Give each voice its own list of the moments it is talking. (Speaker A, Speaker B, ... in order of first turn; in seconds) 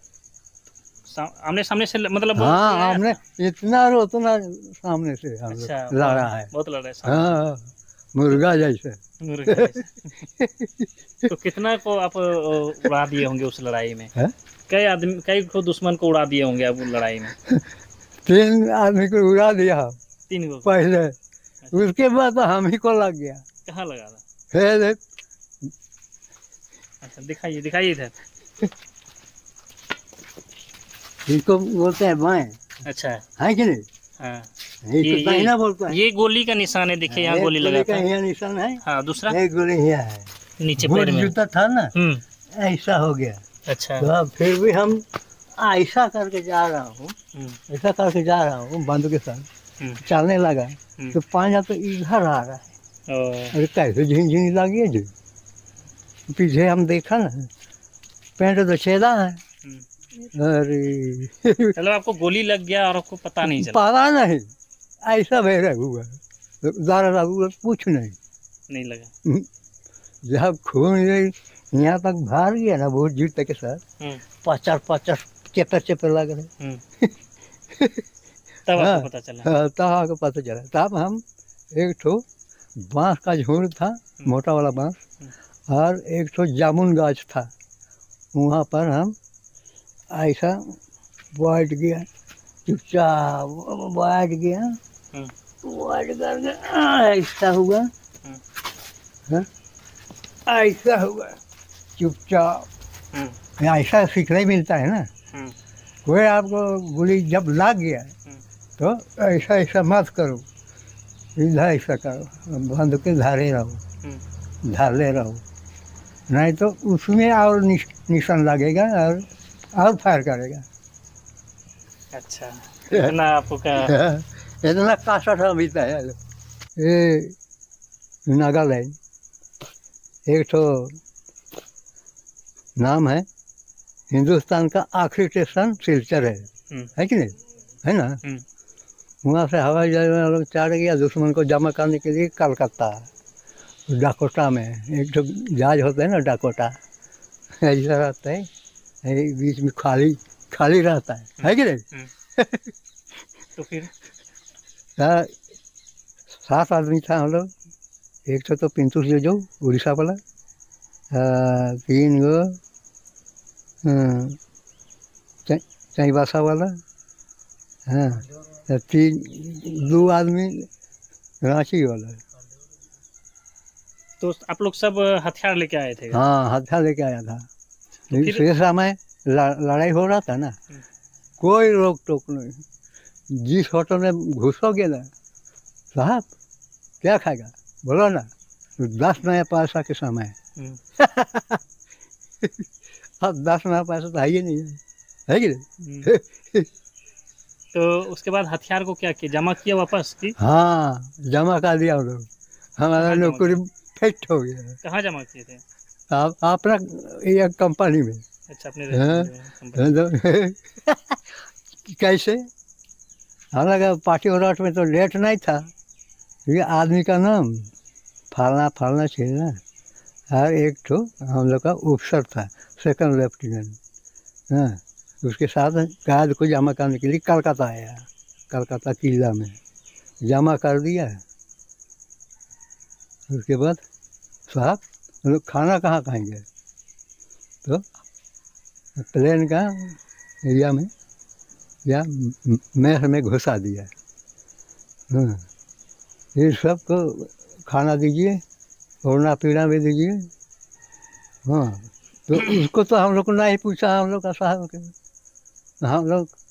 Speaker A: 1.1-3.2, 5.5-7.4, 9.2-10.1, 11.3-14.1, 14.7-17.4, 20.3-20.7, 23.7-24.2, 27.0-28.1, 32.9-33.2, 34.2-34.5, 35.0-38.1, 38.8-39.4, 40.6-41.3, 42.0-42.2, 43.7-44.1, 53.1-53.5, 61.8-63.8, 68.7-69.1, 78.7-79.5, 122.1-123.9, 151.4-152.1, 153.6-153.9, 174.2-176.2, 178.1-178.5, 195.8-196.1, 197.7-200.4, 203.0-203.6, 204.8-205.6, 208.5-209.9
Speaker B: 2.4-6.5, 7.0-11.3, 18.2-20.0, 20.6-21.1, 21.7-23.4, 24.5-25.0, 31.3-32.6, 33.4-33.9, 34.9-36.0, 37.1-40.3, 40.8-41.9, 42.6-43.4, 44.0-45.0, 45.6-47.1, 47.7-49.5, 50.0-52.7, 53.5-55.1, 56.3-57.5, 58.4-59.4, 60.3-61.7, 63.4-64.5, 65.0-68.2, 70.3-73.8, 74.4-76.5, 77.7-78.0, 78.8-81.2, 81.8-82.2, 82.8-85.0, 85.7-87.5, 88.3-89.2, 90.1-90.8, 91.3-92.1, 92.7-94.8, 95.6-97.9, 100.5-101.4, 102.0-102.7, 103.6-105.1, 106.0-108.1, 108.8-110.5, 111.4-113.8, 114.7-115.4, 116.3-120.7, 123.8-126.2, 126.8-127.3, 128.3-129.0, 130.3-131.0, 132.8-133.2, 134.1-138.2, 139.2-143.1, 143.9-146.8, 147.6-148.5, 149.0-151.8, 152.4-152.7, 155.0-155.3, 156.4-157.5, 158.3-160.2, 161.1-162.6, 163.8-164.4, 165.5-166.7, 167.9-170.7, 171.4-172.2, 176.1-177.4, 178.1-180.6, 181.4-182.6, 183.3-185.1, 185.9-186.3, 187.0-188.3, 188.8-190.3, 191.0-191.6, 193.2-196.7, 200.4-202.3, 202.8-204.8, 206.1-208.2, 208.9-211.2, 211.9-212.4, 213.6-215.6, 216.5-217.7, 218.3-219.6, 220.3-223.8, 224.5-229.6, 230.2-231.2, 233.3-233.8, 234.5-236.4, 239.0-240.9, 241.9-243.9, 245.1-245.4, 246.3-248.4, 249.1-250.3, 251.4-254.9, 255.8-256.3